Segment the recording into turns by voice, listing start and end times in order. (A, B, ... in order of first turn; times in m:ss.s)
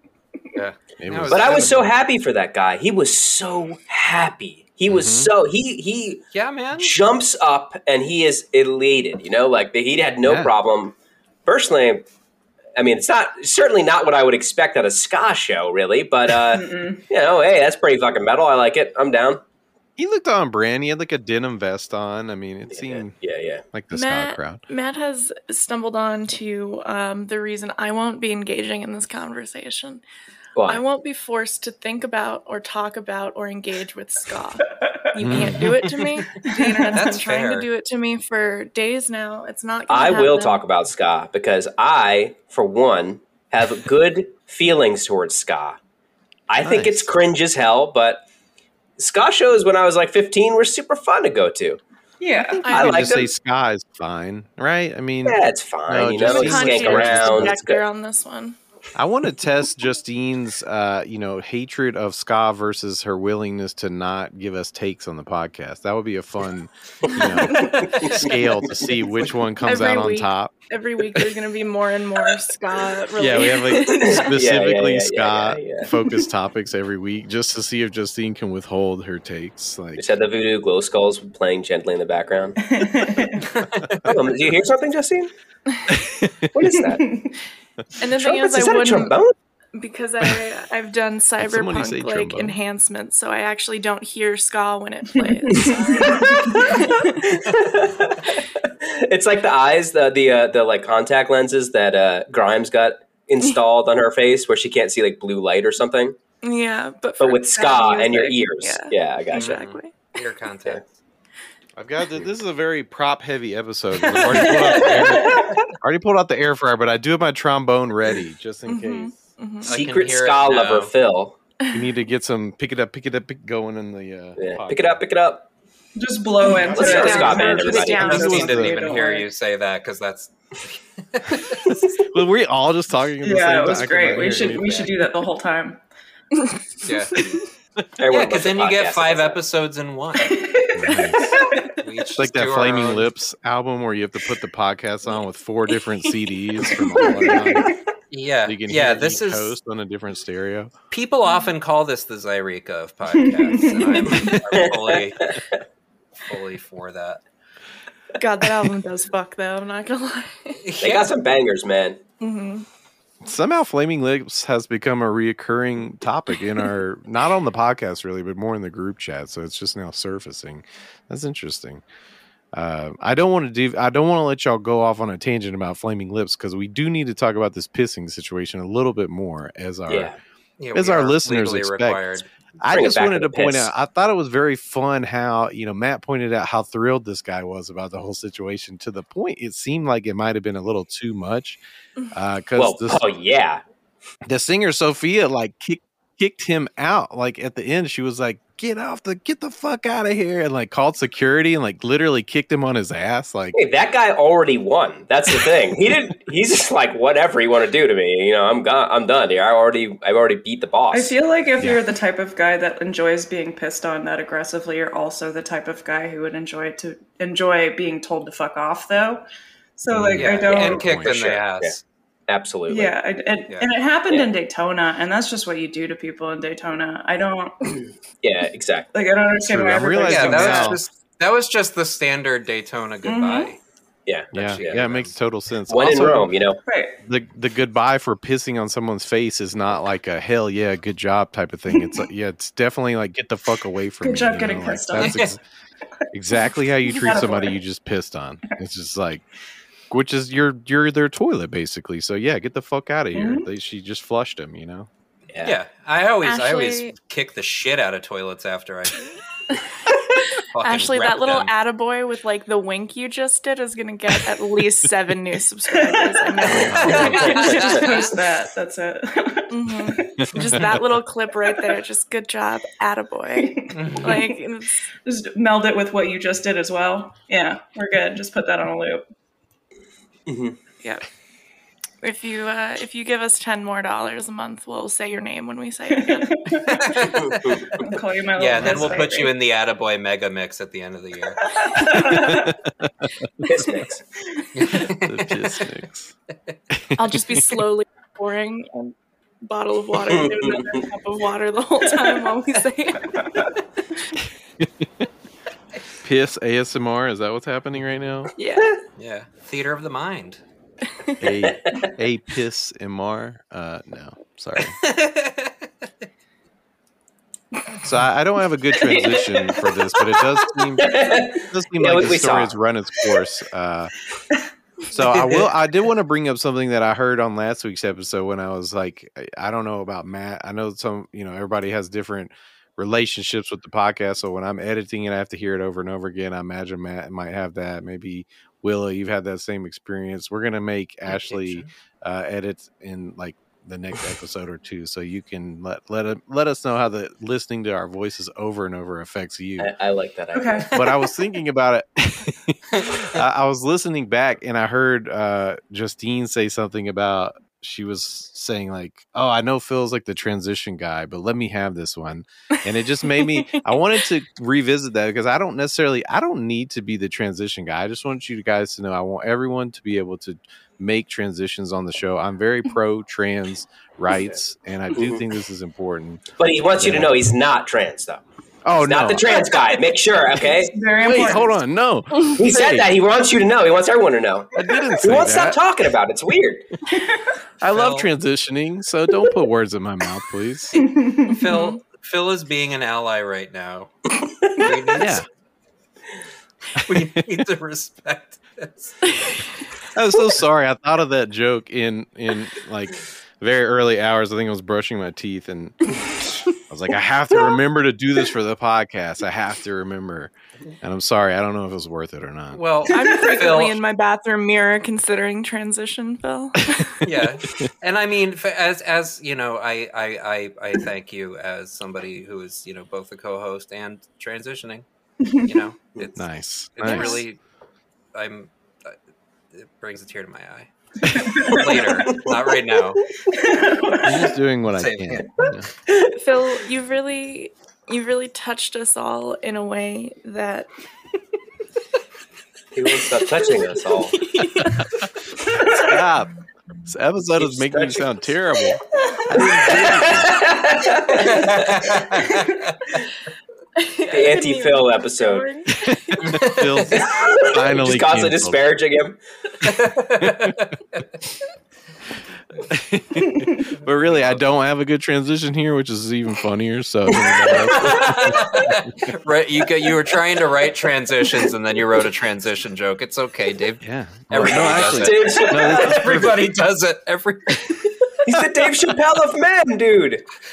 0:00.5-0:01.8 A
0:01.0-0:01.9 B
0:01.3-0:06.2 C
0:04.9-0:05.3 B
0:06.3-0:06.9 A
0:06.7-0:12.0 C
0:10.2-0:10.5 B
0:12.8-0:19.4 C
0:16.5-0:17.0 D
0:20.0-0:23.2 B
0:22.7-0:23.6 C
0:23.7-0:24.6 B
0:23.9-0:30.0 E
0:30.5-0:30.8 C
0:30.6-0:40.6 E
0:35.2-0:35.8 B
0:35.3-0:37.7 A
0:36.4-0:37.0 D
0:39.9-0:45.8 C
0:46.5-0:48.2 C
0:46.6-0:47.1 B
0:49.0-0:51.8 C
0:52.2-0:52.7 D
0:52.6-0:52.9 E
0:52.6-0:57.7 B
0:52.7-0:53.3 C
0:55.2-0:57.8 C
0:56.2-0:58.6 E
0:58.9-1:10.5 B
1:07.1-1:07.8 E
1:07.5-1:09.4 A
1:08.0-1:08.6 C
1:09.6-1:14.3 E
1:13.2-1:20.0 B
1:13.9-1:15.9 C
1:20.0-1:22.7 C
1:22.7-1:23.5 D
1:23.5-1:24.1 A
1:24.0-1:25.3 C
1:25.9-1:26.5 B
1:26.5-1:27.1 C
1:26.8-1:27.4 D
1:28.0-1:29.2 E
1:28.2-1:29.3 C
1:29.8-1:37.3 E
1:31.4-1:32.6 B
1:35.2-1:36.8 D
1:36.4-1:46.2 C
1:46.4-1:49.9 E
1:47.2-1:49.6 C
1:49.3-1:50.9 A
1:51.8-1:59.1 B
1:54.3-1:55.5 D
1:58.6-1:59.7 E
1:59.6-2:01.4 C
1:59.6-2:00.9 A
2:01.6-2:01.9 E
2:01.7-2:05.0 B
2:04.4-2:05.5 C
2:06.0-2:09.2 D
2:06.5-2:09.2 E
2:06.7-2:11.8 A
2:06.7-2:08.1 C
2:07.0-2:08.8 B
2:12.0-2:14.9 B
2:13.2-2:15.8 D
2:14.4-2:14.9 A
2:16.8-2:17.2 A
2:17.1-2:17.4 E
2:18.0-2:19.4 C
2:18.1-2:20.6 A
2:20.2-2:21.7 D
2:20.7-2:21.4 B
2:21.7-2:23.1 A
2:22.2-2:27.8 B
2:26.0-2:26.8 E
2:27.0-2:27.8 D
2:28.1-2:29.5 A
2:28.4-2:30.7 B
2:30.9-2:35.3 A
2:33.2-2:34.4 D
2:34.5-2:35.4 C
2:36.2-2:37.2 A
2:38.2-2:40.8 E
2:40.6-2:41.1 A
2:40.8-2:42.0 C
2:42.2-2:42.6 E
2:43.2-2:51.8 B
2:52.5-3:00.1 B
2:59.9-3:00.2 C
3:00.6-3:02.2 A
3:00.7-3:11.6 B
3:02.7-3:03.7 C
3:12.1-3:13.0 B
3:12.6-3:13.6 C
3:14.3-3:23.6 B
3:23.5-3:31.2 C
3:30.9-3:39.2 D
3:39.8-3:40.8 D
3:39.9-3:41.2 B
3:40.1-3:41.8 A
3:40.9-3:41.7 C
3:42.3-3:42.9 C
3:42.7-3:47.7 D
3:48.2-3:48.9 C
3:48.9-3:50.8 D
3:49.4-3:50.8 B
3:50.0-3:53.6 A
3:53.0-3:53.5 D
3:54.0-3:54.9 C
3:54.3-3:56.3 B
3:54.3-3:55.1 A
3:55.7-3:56.6 C
3:56.7-3:57.0 D
3:57.0-4:05.4 B
4:04.0-4:05.2 D
4:05.0-4:05.3 A
4:06.1-4:09.2 B
4:06.9-4:07.6 D
4:09.9-4:14.9 B
4:13.1-4:13.5 D
4:15.3-4:15.6 C
4:15.4-4:19.1 A
4:16.2-4:16.9 E
4:19.5-4:28.2 E
4:20.5-4:21.5 A
4:25.8-4:30.4 D
4:26.5-4:27.4 B
4:26.8-4:28.1 A
4:29.5-4:34.8 E
4:30.2-4:30.8 B
4:33.4-4:34.4 D
4:33.7-4:34.2 A
4:35.0-4:39.0 D
4:40.3-4:40.6 C
4:42.0-4:47.2 E
4:46.0-4:46.9 D
4:46.8-4:52.0 A
4:47.2-4:47.7 C
4:47.8-4:49.3 D
4:48.5-4:49.0 B
4:51.5-4:52.5 D
4:51.9-4:53.1 B
4:53.4-4:54.0 C
4:54.5-4:55.6 A
4:54.6-4:56.1 B
4:56.7-4:57.2 B
4:57.0-5:03.3 E
5:00.1-5:00.8 C
5:04.6-5:05.0 B
5:06.0-5:08.3 B
5:08.4-5:08.8 E
5:09.0-5:10.4 A
5:11.2-5:14.8 B
5:14.8-5:15.7 A
5:17.8-5:23.9 B
5:18.9-5:19.6 C
5:20.8-5:22.6 C
5:24.8-5:49.7 B
5:25.1-5:25.4 C
5:41.1-5:41.7 A
5:49.6-5:51.0 C
5:50.3-5:50.8 D
5:50.7-6:17.2 B
6:03.2-6:03.6 E
6:14.1-6:14.4 C
6:14.9-6:15.2 C
6:16.4-6:18.2 C
6:18.6-6:19.5 B
6:18.7-6:20.7 C
6:20.4-6:21.5 D
6:21.0-6:22.9 B
6:22.3-6:26.7 C
6:24.6-6:25.6 B
6:27.6-6:30.8 B
6:27.7-6:28.1 A
6:30.8-6:31.3 D
6:31.2-6:35.2 A
6:31.4-6:31.8 E
6:34.9-6:35.2 B
6:36.8-6:37.2 B
6:36.8-6:39.0 A
6:39.0-6:39.5 E
6:39.9-6:45.9 B
6:45.9-6:46.5 E
6:46.7-6:52.6 B
6:52.5-6:53.8 A
6:52.9-6:57.1 E
6:57.0-7:07.4 A
7:06.2-7:07.2 B
7:06.8-7:07.2 E
7:08.1-7:09.0 A
7:09.5-7:13.0 A
7:11.0-7:11.3 B
7:11.1-7:11.8 D
7:11.5-7:12.3 C
7:13.3-7:14.4 D
7:14.0-7:15.7 B
7:14.7-7:15.5 A
7:16.1-7:20.7 E
7:22.7-7:24.2 C
7:23.1-7:25.7 E
7:25.6-7:26.3 B
7:26.8-7:30.4 B
7:27.4-7:28.2 C
7:29.1-7:29.8 E
7:29.3-7:32.0 C
7:31.2-7:32.7 A
7:33.8-7:36.4 E
7:34.1-7:35.5 C
7:35.7-7:38.7 B
7:36.2-7:37.0 A
7:36.9-7:39.2 C
7:39.6-7:40.7 A
7:40.2-7:40.7 B
7:42.7-7:49.1 B
7:43.9-7:44.4 A
7:47.7-7:48.2 C
7:47.8-7:57.8 A
7:53.8-7:56.4 B
7:54.3-7:56.3 C
7:58.2-8:00.2 C